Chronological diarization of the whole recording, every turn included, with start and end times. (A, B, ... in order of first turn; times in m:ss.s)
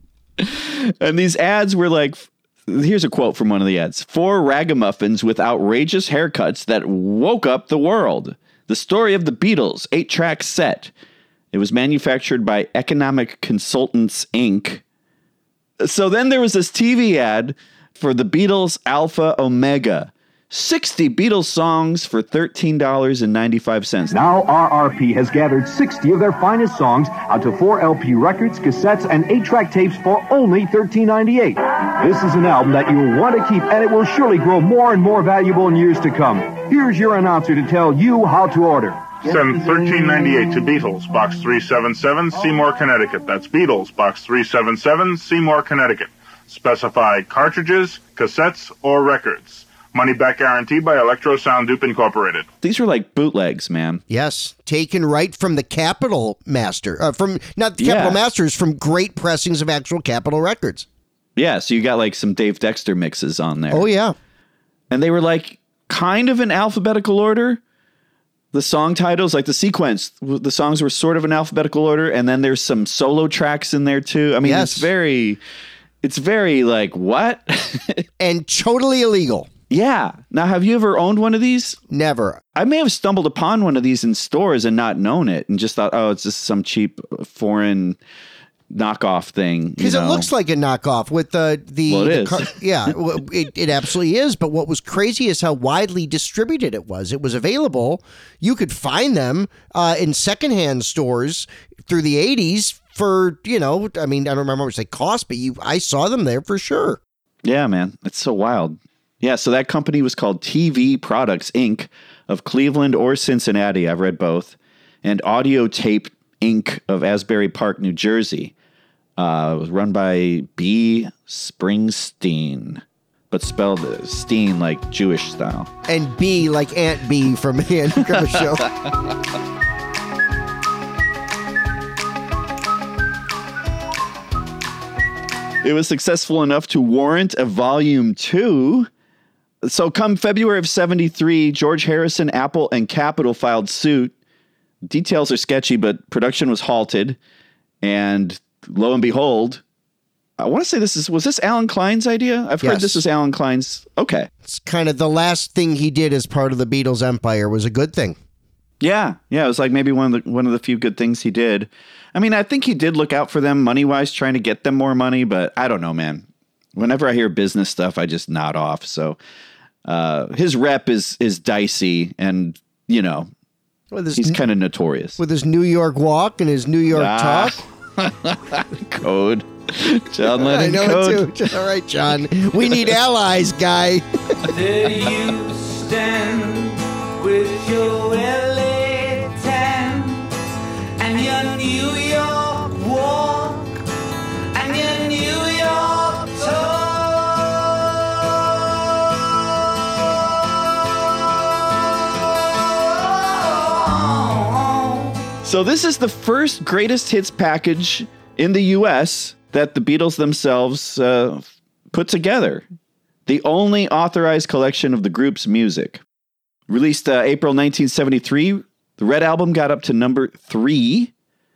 0:00.4-0:10.9 A
0:11.5-0:14.8 A
0:15.8-0:24.2 A
0:24.1-0:39.4 B
0:39.3-0:52.5 C
0:52.6-0:54.0 A
0:54.1-1:00.9 D
0:57.8-0:58.2 A
1:01.4-1:03.9 A
1:03.7-1:04.2 D
1:04.9-1:07.6 A
1:08.5-1:15.4 A
1:14.4-1:14.9 D
1:16.0-1:18.0 A
1:18.2-1:19.5 D
1:19.7-1:21.8 A
1:21.9-1:22.4 D
1:22.6-1:28.0 A
1:28.7-1:30.3 A
1:29.8-1:47.0 D
1:31.9-1:32.5 A
1:47.4-1:58.5 A
1:59.2-2:05.7 A
2:05.9-2:08.7 D
2:15.6-2:18.9 A
2:19.6-2:24.1 A
2:24.8-2:27.2 A
2:27.8-2:29.6 A
2:30.4-2:34.3 A
2:32.6-2:33.0 D
2:34.4-2:38.2 D
2:38.8-2:49.2 A
2:49.9-2:53.3 A
2:53.9-2:54.4 D
2:54.2-2:55.2 A
2:55.2-2:57.6 D
2:56.9-3:01.3 A
3:00.2-3:04.0 D
3:04.5-3:10.3 E
3:11.0-3:13.8 E
3:14.5-3:17.8 E
3:23.0-3:25.1 E
3:25.4-3:32.6 A
3:33.3-3:36.0 A
3:36.7-3:41.1 A